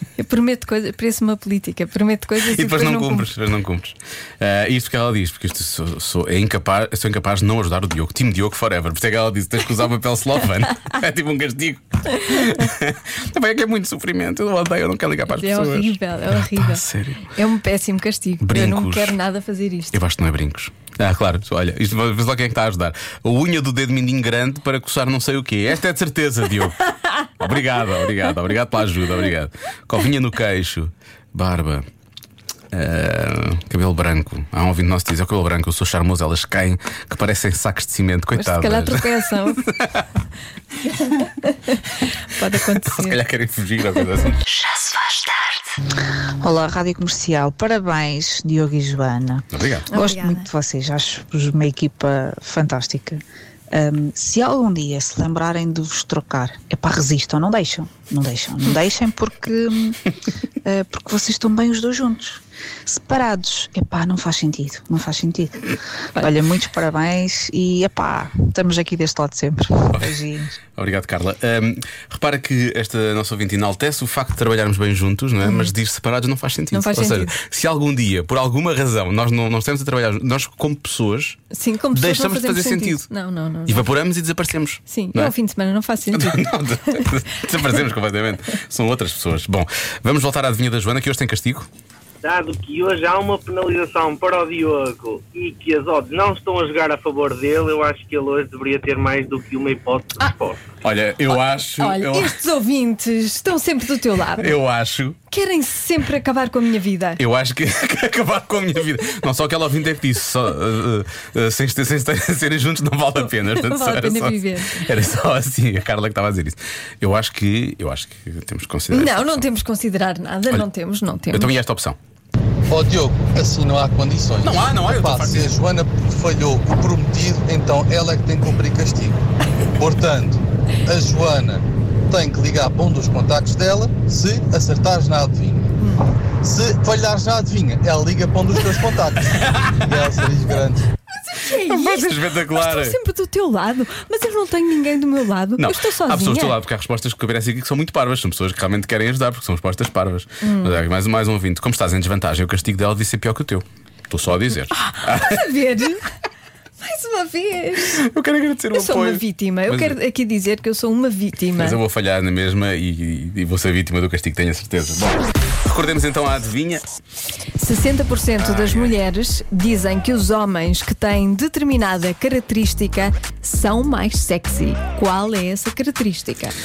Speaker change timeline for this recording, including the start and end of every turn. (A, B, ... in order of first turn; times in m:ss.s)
0:00.2-0:03.3 A
0:02.4-0:17.3 B
0:15.3-0:20.0 A
0:18.4-0:19.2 B
0:19.9-0:26.8 B
0:27.4-0:31.8 B
0:32.7-0:40.0 B
0:38.4-0:39.6 A
0:40.9-0:43.2 A
0:42.5-0:44.4 B
0:46.4-1:00.1 C
0:49.5-0:49.9 B
0:49.9-0:50.5 A
1:00.6-1:10.6 C
1:09.9-1:10.2 B
1:10.7-1:21.4 B
1:15.4-1:15.7 A
1:16.7-1:17.4 A
1:21.5-1:23.9 A
1:21.9-1:23.1 B
1:23.7-1:25.3 B
1:24.9-1:27.1 A
1:26.1-1:31.7 B
1:32.2-1:34.0 D
1:35.2-1:35.5 D
1:38.0-1:40.6 D
1:40.8-1:42.4 B
1:41.7-1:44.5 A
1:44.4-1:45.2 B
1:45.3-1:47.2 A
1:47.2-1:59.5 B
1:53.4-1:54.9 A
1:58.9-2:01.5 A
2:01.3-2:02.0 B
2:02.7-2:09.2 E
2:04.4-2:05.5 B
2:09.8-2:15.7 E
2:15.8-2:16.0 A
2:16.4-2:20.9 E
2:19.3-2:19.7 B
2:21.2-2:26.6 A
2:21.5-2:23.0 B
2:25.6-2:35.5 B
2:30.4-2:30.8 A
2:34.7-2:36.0 A
2:36.8-2:38.0 A
2:37.9-2:40.0 B
2:38.7-2:41.8 A
2:41.6-2:46.8 B
2:47.6-2:56.6 A
2:48.4-2:49.0 B